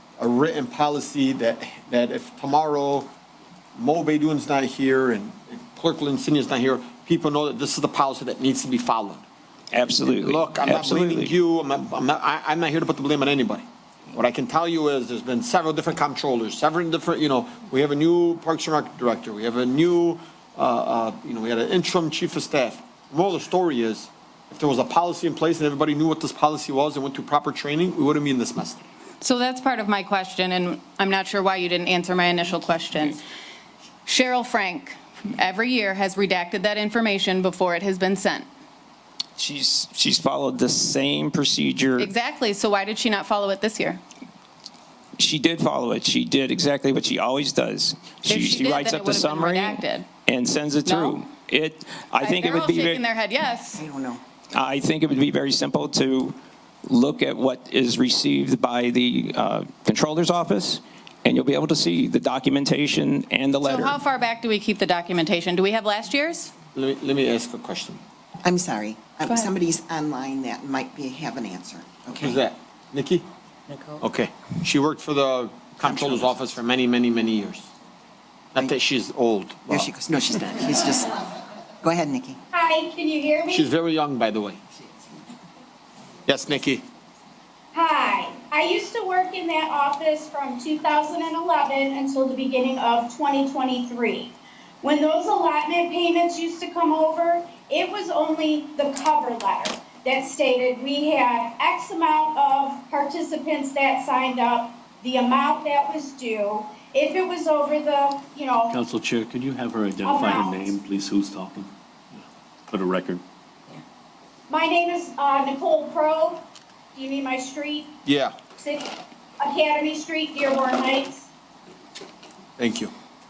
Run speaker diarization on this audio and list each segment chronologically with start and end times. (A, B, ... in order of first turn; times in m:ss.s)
0:00.2-0:03.1 A
0:03.8-0:09.2 A
0:09.7-0:11.3 B
0:10.0-0:28.8 A
0:29.2-0:33.2 C
0:34.1-0:38.5 C
0:39.4-0:42.1 B
0:42.0-0:44.0 C
0:45.2-0:53.0 B
0:48.3-0:50.1 C
0:50.9-0:51.2 C
0:52.2-0:53.8 C
0:53.8-0:54.2 D
0:54.5-1:04.0 B
1:03.6-1:06.5 C
1:06.7-1:08.0 A
1:08.5-1:12.4 D
1:09.2-1:09.5 C
1:12.1-1:13.2 A
1:13.9-1:17.7 A
1:15.8-1:16.3 D
1:18.5-1:19.9 A
1:19.7-1:21.2 D
1:21.9-1:22.4 D
1:22.5-1:23.7 E
1:23.5-1:24.6 A
1:26.3-1:26.8 A
1:27.7-1:48.8 E
1:48.7-1:51.7 F
1:50.0-1:50.7 E
1:52.7-1:53.2 F
1:54.5-1:56.4 E
1:57.0-1:57.9 E
1:58.0-1:58.4 A
1:58.6-2:01.3 E
2:02.6-2:02.9 A